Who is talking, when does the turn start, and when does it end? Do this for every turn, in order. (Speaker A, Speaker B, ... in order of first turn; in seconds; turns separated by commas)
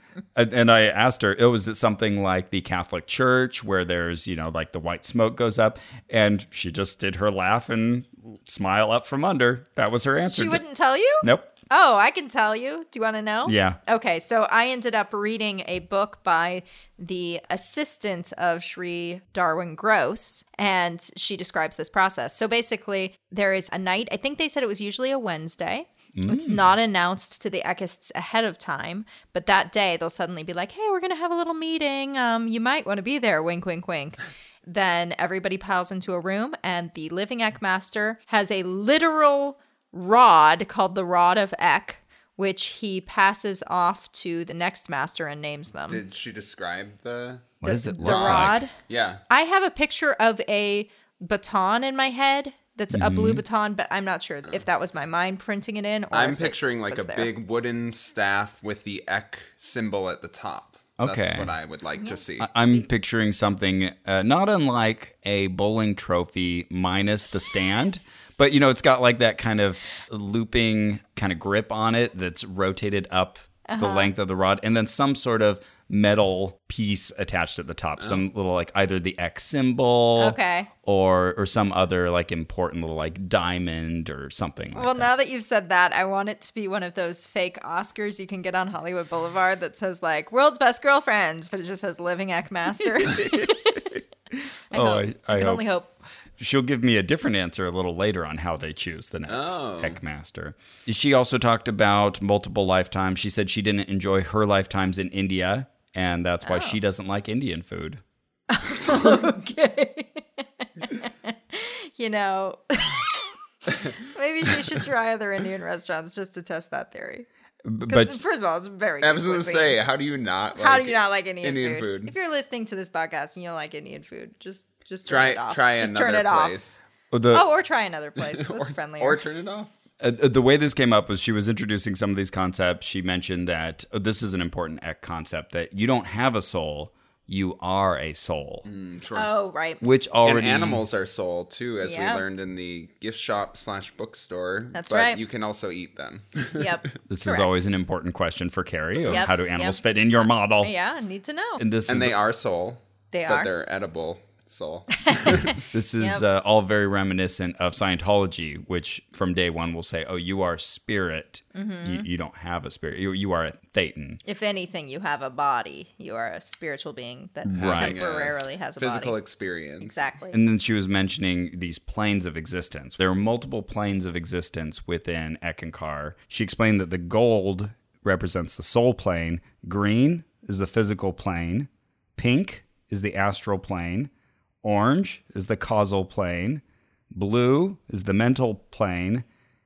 Speaker A: 0.3-10.6, Speaker B: 10.2-46.0, Speaker A: 11.2-11.5, Speaker A: 13.4-13.8, Speaker A: 26.1-26.7, Speaker C: 45.9-49.2, Speaker A: 47.6-48.6, Speaker B: 47.6-48.7, Speaker B: 49.3-57.3, Speaker A: 52.9-53.4, Speaker C: 56.1-62.5, Speaker A: 61.0-61.5, Speaker A: 62.4-85.1, Speaker B: 73.7-74.1, Speaker B: 80.2-80.7, Speaker B: 84.7-93.9, Speaker A: 92.9-94.0, Speaker A: 94.7-95.6, Speaker B: 94.7-95.9, Speaker A: 96.4-108.0, Speaker C: 99.3-100.0, Speaker B: 106.4-106.8, Speaker B: 108.5-117.3, Speaker A: 117.7-118.2, Speaker B: 117.9-119.8, Speaker C: 119.0-122.1, Speaker B: 120.5-126.5, Speaker C: 125.0-126.8, Speaker A: 127.1-127.5, Speaker B: 127.3-129.2, Speaker C: 128.2-129.7, Speaker A: 130.0-138.7, Speaker C: 138.6-139.3, Speaker B: 139.1-139.8, Speaker A: 139.8-140.8, Speaker C: 140.2-146.7, Speaker B: 141.8-142.2, Speaker B: 144.7-145.2, Speaker B: 146.6-147.6, Speaker A: 147.1-150.7, Speaker B: 149.1-149.8, Speaker B: 150.6-151.6, Speaker A: 151.6-152.2, Speaker C: 151.9-155.5, Speaker B: 153.1-153.5, Speaker B: 155.1-156.2, Speaker A: 155.7-164.2, Speaker B: 161.5-162.1, Speaker B: 164.2-169.2, Speaker A: 167.4-168.1, Speaker C: 167.6-170.0, Speaker B: 169.8-170.4, Speaker A: 170.3-184.1, Speaker A: 184.6-189.2